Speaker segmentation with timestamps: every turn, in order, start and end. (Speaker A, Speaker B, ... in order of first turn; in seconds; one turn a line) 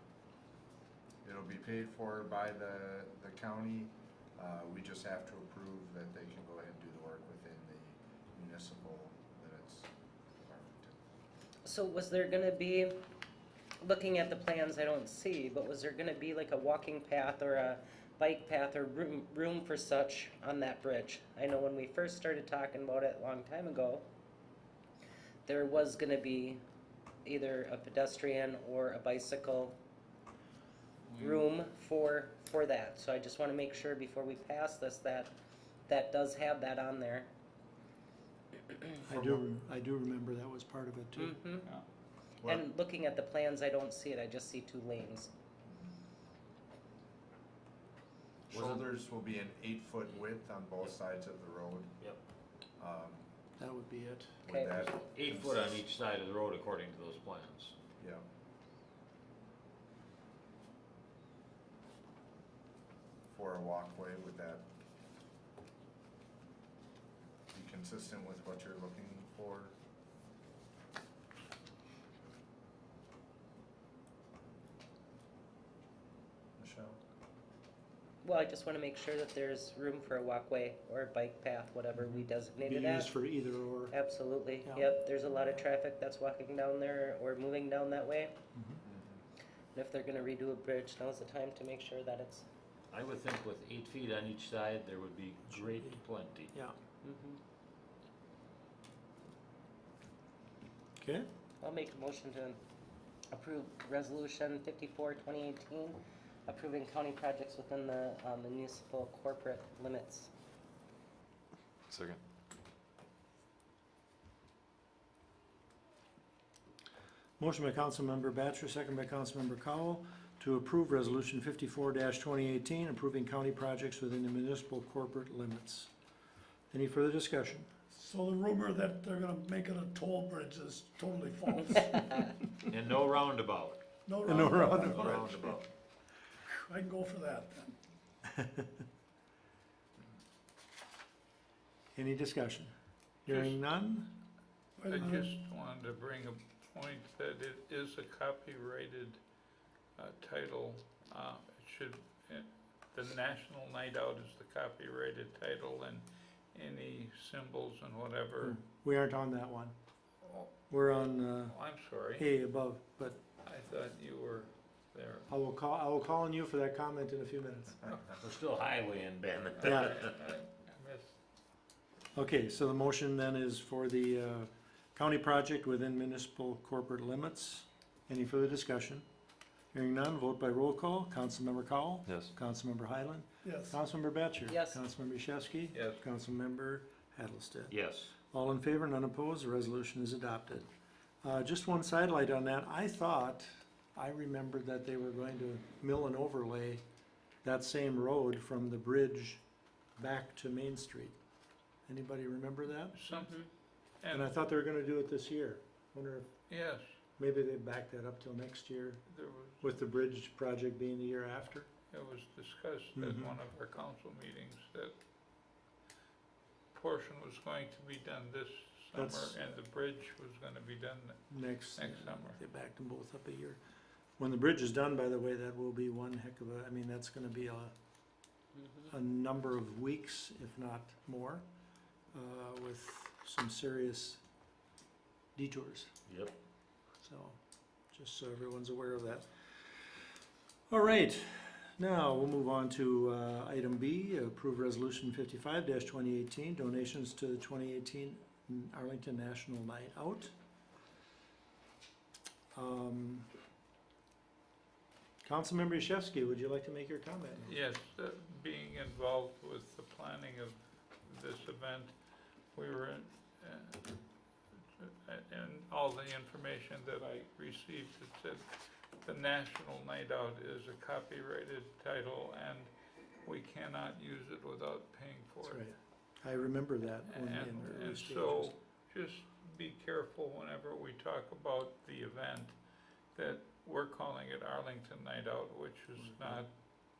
Speaker A: 1.2-11.0
Speaker B: 11.6-13.0
Speaker B: 13.8-24.1
Speaker B: 25.5-26.6
Speaker B: 27.2-29.8
Speaker C: 31.1-31.4
Speaker B: 31.2-35.3
Speaker B: 35.9-37.3
Speaker D: 39.0-41.4
Speaker B: 41.1-41.7
Speaker B: 42.5-45.3
Speaker A: 45.7-45.9
Speaker A: 48.5-52.0
Speaker E: 48.5-48.9
Speaker A: 52.8-53.3
Speaker D: 53.6-54.4
Speaker A: 54.4-55.8
Speaker B: 54.5-54.9
Speaker E: 55.1-57.8
Speaker A: 58.0-58.2
Speaker A: 63.3-64.7
Speaker A: 67.5-69.7
Speaker A: 76.6-77.0
Speaker B: 78.2-83.1
Speaker D: 82.0-83.9
Speaker B: 83.9-88.3
Speaker D: 84.6-84.9
Speaker D: 88.5-88.8
Speaker A: 88.8-89.2
Speaker B: 89.7-92.4
Speaker E: 92.9-96.5
Speaker D: 95.5-96.0
Speaker B: 97.0-97.4
Speaker D: 101.0-101.3
Speaker B: 101.6-102.6
Speaker B: 103.3-110.3
Speaker D: 117.4-125.9
Speaker D: 126.7-127.7
Speaker F: 127.9-132.3
Speaker E: 132.7-133.8
Speaker F: 134.1-135.2
Speaker D: 134.2-135.6
Speaker E: 134.9-135.7
Speaker F: 136.5-137.7
Speaker D: 138.3-138.7
Speaker D: 141.9-142.7
Speaker D: 143.2-144.2
Speaker C: 143.3-143.6
Speaker F: 144.8-145.3
Speaker C: 144.9-149.2
Speaker C: 149.9-158.6
Speaker D: 158.4-159.7
Speaker C: 160.2-160.5
Speaker D: 160.7-161.6
Speaker C: 161.5-162.2
Speaker D: 162.1-163.2
Speaker C: 163.4-165.3
Speaker D: 165.3-167.9
Speaker E: 168.2-170.1
Speaker C: 169.6-171.1
Speaker D: 169.6-169.9
Speaker D: 172.1-179.0
Speaker D: 179.7-190.7
Speaker F: 183.4-183.7
Speaker B: 184.5-184.8
Speaker C: 185.7-186.0
Speaker E: 187.7-188.1
Speaker D: 191.2-196.8
Speaker D: 197.4-199.4
Speaker D: 200.0-201.2
Speaker D: 201.9-203.0
Speaker C: 202.9-203.4
Speaker B: 203.1-203.5
Speaker C: 204.0-204.4
Speaker D: 204.1-206.3
Speaker C: 206.5-206.8
Speaker D: 207.2-209.0
Speaker C: 209.1-209.8
Speaker D: 209.6-211.7
Speaker C: 211.9-214.9
Speaker D: 212.9-213.4
Speaker C: 216.7-221.2
Speaker D: 218.9-219.4
Speaker D: 221.3-223.6
Speaker C: 221.8-222.4
Speaker D: 224.2-227.7
Speaker D: 228.9-231.4
Speaker D: 232.1-234.2
Speaker D: 235.3-235.9
Speaker E: 236.1-236.3
Speaker D: 237.0-237.4
Speaker D: 237.9-239.3
Speaker D: 240.7-250.3
Speaker D: 252.5-253.3
Speaker D: 255.2-257.5
Speaker C: 257.5-261.9
Speaker C: 262.5-264.0
Speaker C: 264.8-268.5
Speaker C: 269.0-272.7
Speaker C: 273.2-275.6
Speaker D: 275.4-278.6
Speaker C: 277.1-282.6
Speaker C: 283.1-286.5
Speaker D: 285.9-286.5